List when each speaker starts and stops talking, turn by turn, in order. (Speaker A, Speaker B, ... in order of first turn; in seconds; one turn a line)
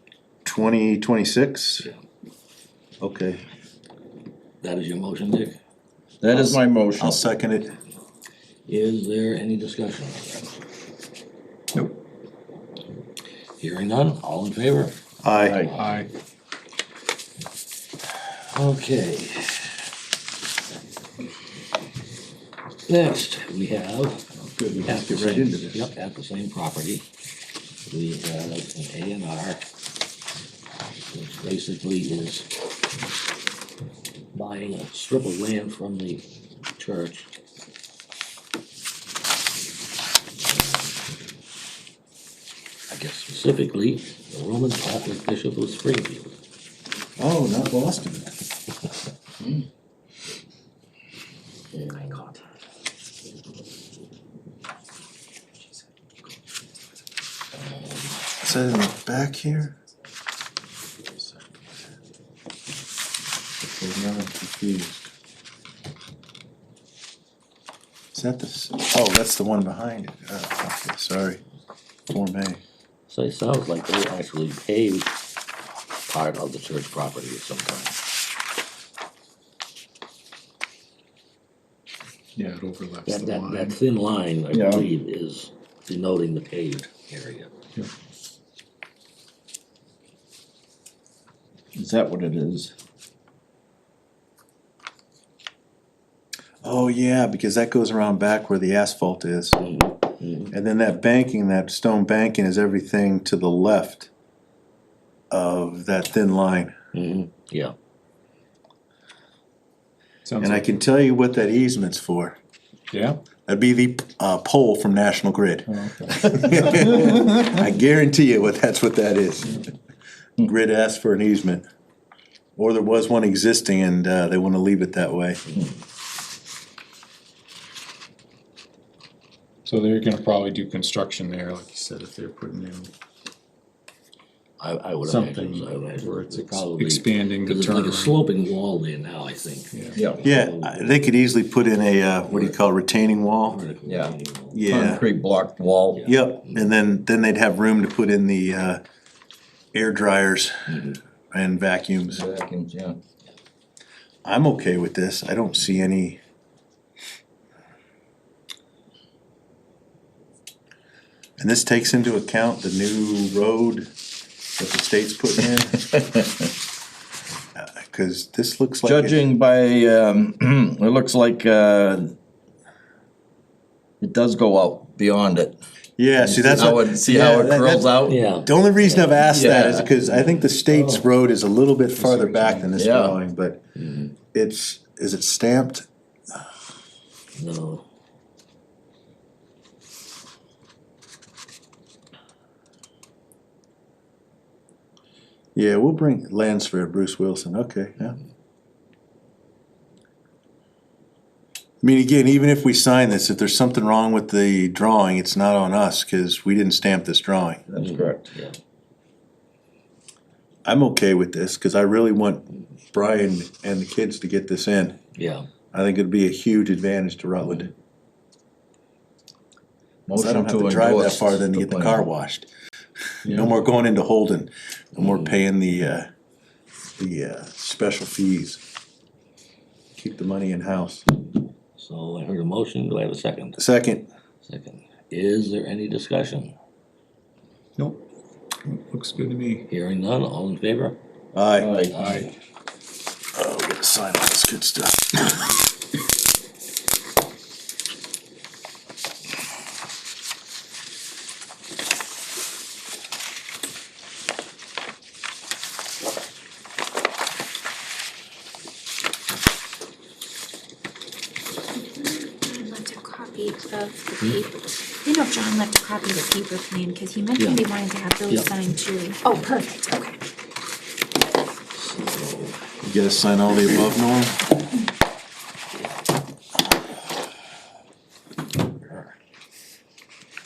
Speaker A: 0.5-1.9
Speaker A: 3.0-3.4
Speaker B: 4.6-5.5
Speaker C: 6.2-7.2
Speaker A: 6.3-7.7
Speaker B: 8.7-10.6
Speaker B: 13.6-14.9
Speaker A: 15.2-15.6
Speaker C: 15.4-15.7
Speaker D: 15.7-16.1
Speaker B: 18.5-19.7
Speaker B: 22.9-24.2
Speaker A: 24.6-25.9
Speaker B: 24.8-27.1
Speaker B: 27.9-29.6
Speaker B: 31.1-32.5
Speaker B: 34.3-36.2
Speaker B: 36.8-37.3
Speaker B: 40.5-40.9
Speaker B: 42.9-46.3
Speaker A: 47.2-48.3
Speaker C: 49.4-49.6
Speaker B: 51.8-52.3
Speaker A: 58.4-59.8
Speaker A: 63.6-65.1
Speaker A: 68.1-71.4
Speaker A: 72.1-72.6
Speaker B: 73.1-75.1
Speaker B: 76.1-78.0
Speaker D: 82.4-83.8
Speaker B: 83.1-87.5
Speaker C: 84.5-84.9
Speaker C: 91.8-92.7
Speaker A: 96.6-99.6
Speaker B: 99.6-100.5
Speaker A: 100.5-104.1
Speaker A: 105.3-106.7
Speaker B: 106.9-107.7
Speaker D: 110.2-110.7
Speaker A: 110.4-112.4
Speaker D: 112.9-113.2
Speaker A: 113.5-119.6
Speaker D: 115.7-117.5
Speaker A: 120.4-121.6
Speaker A: 122.6-125.4
Speaker D: 129.7-132.9
Speaker B: 134.6-141.0
Speaker D: 135.0-138.3
Speaker D: 139.7-140.0
Speaker A: 140.2-143.6
Speaker B: 143.5-144.9
Speaker C: 143.9-144.2
Speaker A: 144.5-145.0
Speaker C: 144.7-146.0
Speaker B: 145.9-146.7
Speaker A: 146.1-148.8
Speaker A: 149.7-150.7
Speaker B: 150.7-151.0
Speaker A: 151.3-152.2
Speaker C: 152.1-153.0
Speaker A: 154.2-156.2
Speaker A: 161.4-163.9
Speaker A: 164.6-165.9
Speaker C: 165.9-166.3
Speaker A: 167.6-169.2
Speaker C: 168.8-172.1
Speaker C: 174.0-175.6
Speaker A: 176.0-183.6
Speaker C: 176.2-178.2
Speaker B: 178.1-179.4
Speaker C: 179.3-179.9
Speaker B: 180.1-181.0
Speaker D: 181.9-182.8
Speaker C: 182.8-183.2
Speaker B: 183.8-184.1
Speaker A: 184.3-185.8
Speaker B: 187.4-187.9
Speaker A: 195.6-198.2
Speaker A: 201.8-207.6
Speaker C: 207.7-208.3
Speaker B: 207.8-208.6
Speaker A: 210.7-215.0
Speaker B: 215.2-215.5
Speaker A: 215.7-217.7
Speaker C: 220.1-222.1
Speaker A: 220.1-222.5
Speaker A: 223.2-226.1
Speaker B: 225.0-225.4
Speaker A: 227.0-228.6
Speaker A: 230.0-231.1
Speaker B: 231.8-233.6
Speaker A: 233.6-234.1
Speaker B: 234.5-236.5
Speaker D: 238.7-239.7
Speaker B: 239.7-241.0
Speaker A: 241.3-241.7
Speaker C: 241.6-241.9
Speaker B: 241.9-242.3
Speaker D: 242.0-242.3
Speaker A: 243.3-245.5
Speaker E: 261.9-270.1
Speaker B: 264.2-264.5
Speaker B: 267.4-267.7
Speaker B: 268.3-268.7
Speaker B: 271.8-272.6
Speaker A: 272.8-274.4
Speaker B: 278.8-279.1